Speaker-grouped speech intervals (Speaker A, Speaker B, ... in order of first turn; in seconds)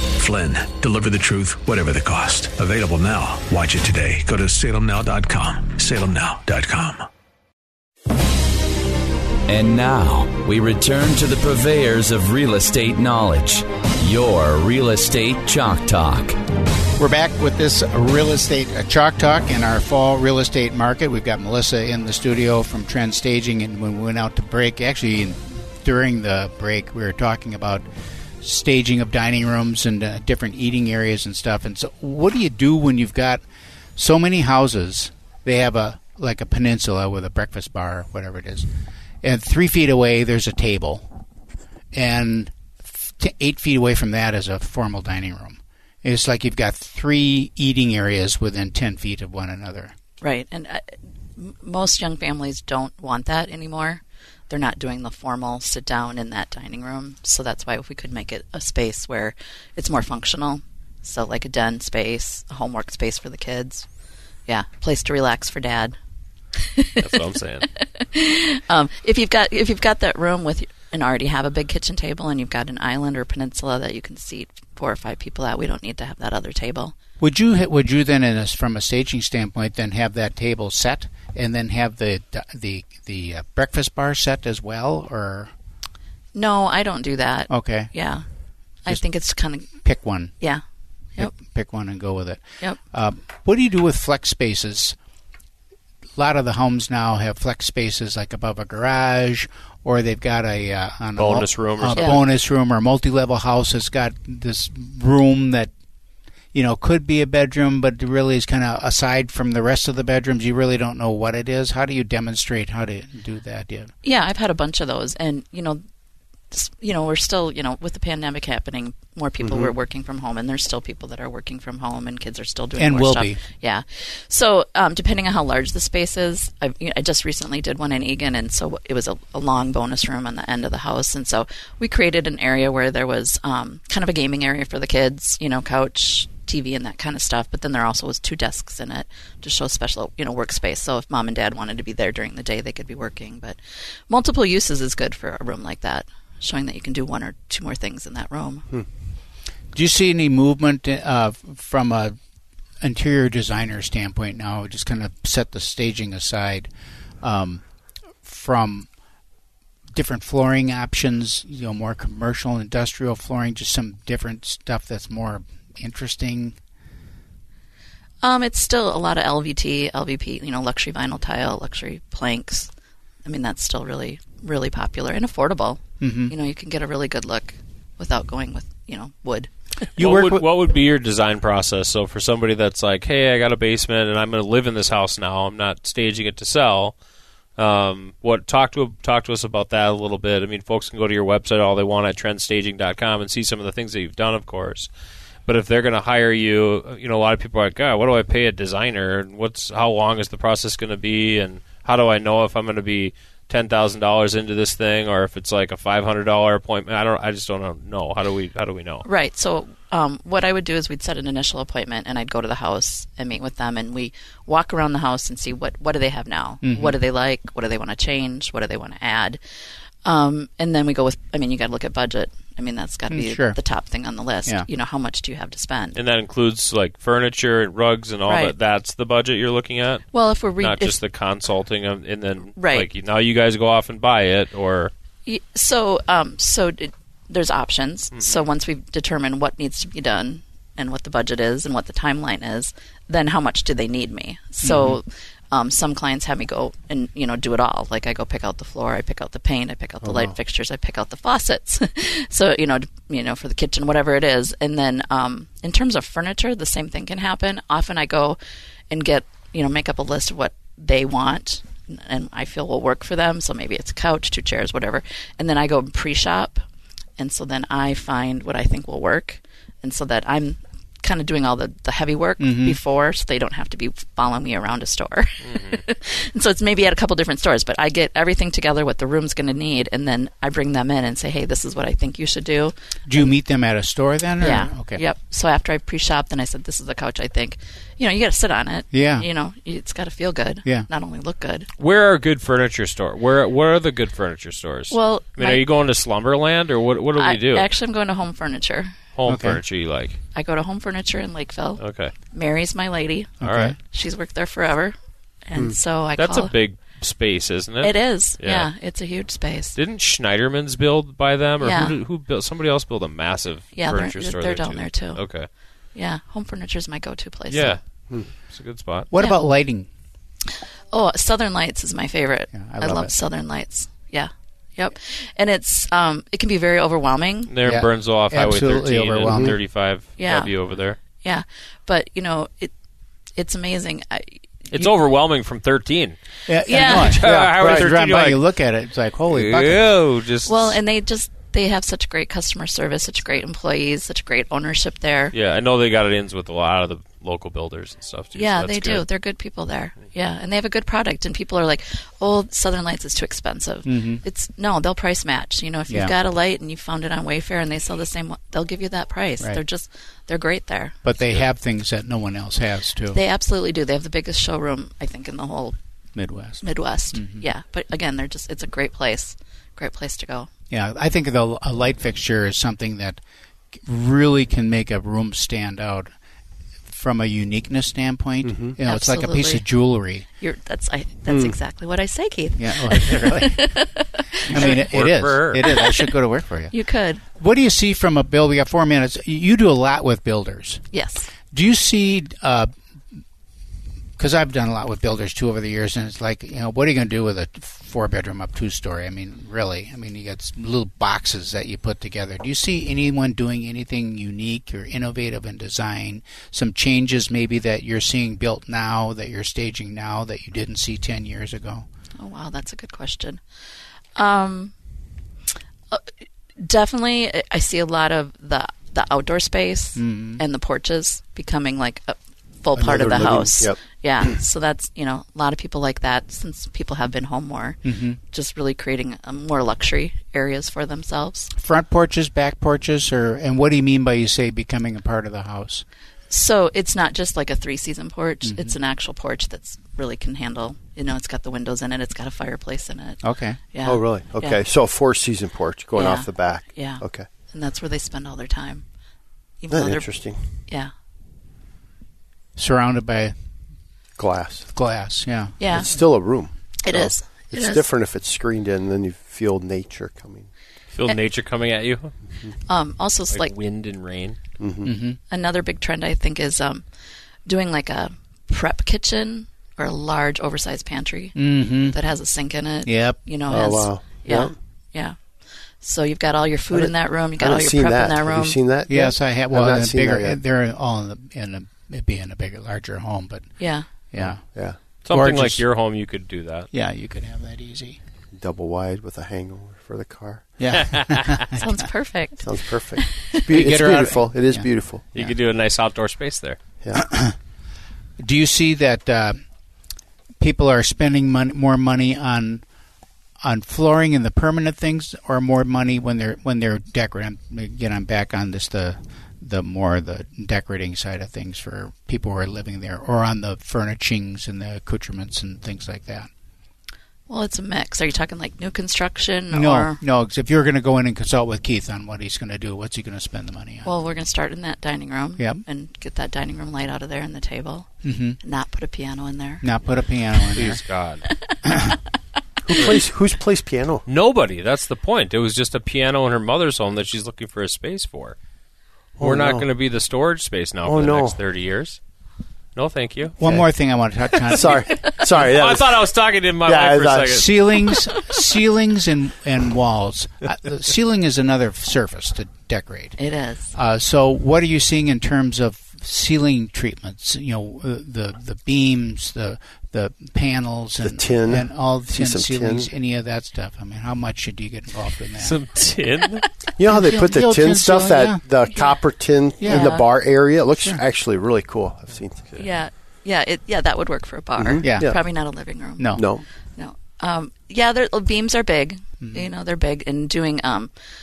Speaker A: 0.2-7.1
Speaker B: 9.5-16.4
Speaker C: 17.0-27.9, 28.4-33.4, 34.0-38.7, 39.2-41.1, 41.9-49.9, 77.2-85.5, 87.5-87.9, 89.7-90.3, 91.2-95.0, 96.2-105.7, 106.5-113.9, 122.8-123.4, 149.7-152.2, 152.8-156.7, 157.2-157.6, 158.2-158.9, 159.9-166.6, 176.0-176.3, 180.0-180.5, 216.6-217.0, 223.1-223.6, 244.6-245.0, 272.4-272.8, 283.1-285.0, 288.9-289.3, 299.3-299.6, 303.4-303.8, 319.1-319.9, 322.5-323.1, 327.6-329.6, 336.5-339.9, 353.9-354.2, 355.9-356.2, 361.0-363.2, 366.2-367.5, 370.7-373.2, 373.7-376.1, 376.9-380.3, 382.6-383.9, 384.5-390.8, 391.5-392.7, 394.2-411.9, 419.9-420.4, 427.8-428.2, 431.5-435.9, 438.4-438.8, 443.2-443.6, 452.6-453.3, 454.7-455.9, 464.8-465.2, 471.4-472.0, 472.9-473.2, 478.9-485.6, 486.7-488.0, 490.6-491.6, 493.4-495.3, 497.1-497.3, 498.2-499.4, 500.4-502.6, 503.4-516.3, 519.5-523.9, 525.4-525.6, 528.0-528.4, 529.6-530.8, 531.6-532.0, 543.4-545.0, 547.3-553.2, 553.7-565.6, 566.8-568.5, 569.6-570.0, 574.8-575.3, 576.0-576.3, 579.2-579.5
Speaker D: 50.2-63.9, 64.5-66.0, 67.9-76.9, 86.3-88.2, 88.8-89.7, 101.9-102.2, 114.0-115.8, 116.5-148.7, 168.2-172.7, 173.2-179.5, 209.0-219.4, 220.0-226.0, 228.3-228.5, 230.1-231.0, 232.6-232.9, 235.3-258.4, 258.9-266.6, 267.2-283.3, 284.4-291.7, 294.9-295.6, 297.1-298.9, 300.3-304.9, 305.5-306.5, 307.8-309.8, 311.6-312.0, 313.7-315.2, 315.9-317.8, 319.2-319.4, 320.9-327.5, 330.2-332.7, 333.4-334.9, 336.7-337.2, 340.4-345.3, 348.4-360.9, 363.1-365.8, 366.6-370.5, 378.9-379.7, 380.4-384.9, 385.6-386.1, 386.7-387.2, 390.9-391.3, 412.2-413.4, 414.2-414.7, 416.6-431.5, 436.3-444.6, 445.9-448.8, 449.6-450.9, 455.6-456.3, 456.8-457.9, 462.7-463.5, 465.3-466.9, 467.5-475.2, 475.8-479.1, 483.6-483.9, 491.6-492.6, 517.3-520.0, 523.8-527.9, 528.4-529.6, 531.3-531.6, 553.2-553.7, 568.7-569.0, 569.6-570.1, 572.6-576.1, 576.8-580.9
Speaker E: 67.0-67.7, 101.2-102.2, 180.0-186.9, 187.6-194.9, 195.5-209.1, 225.9-234.9, 275.4-275.8, 291.8-297.7, 299.1-300.2, 301.8-302.1, 303.4-303.8, 306.1-308.7, 309.7-315.5, 317.5-319.1, 327.5-331.0, 334.7-338.4, 339.3-340.8, 345.3-349.1, 384.5-385.6, 460.9-462.1, 463.3-464.4, 485.1-486.7, 490.8-491.2, 495.1-496.6, 530.6-531.2, 532.8-533.0, 534.1-538.4, 539.2-542.0, 542.8-543.4, 544.6-547.5, 565.4-566.5
Speaker F: 119.4-119.7, 250.0-250.3, 329.3-329.6, 378.4-378.8, 381.3-381.6, 422.8-423.8, 443.8-447.3, 449.7-450.5, 454.2-454.7, 455.7-460.5, 464.6-464.9, 473.5-474.5, 476.7-480.4, 484.2-484.8, 488.3-490.6, 492.4-495.1, 532.6-534.1, 539.2-539.7, 540.8-541.4, 543.4-547.4, 561.0-562.9, 566.8-572.5, 574.6-575.2, 576.1-576.5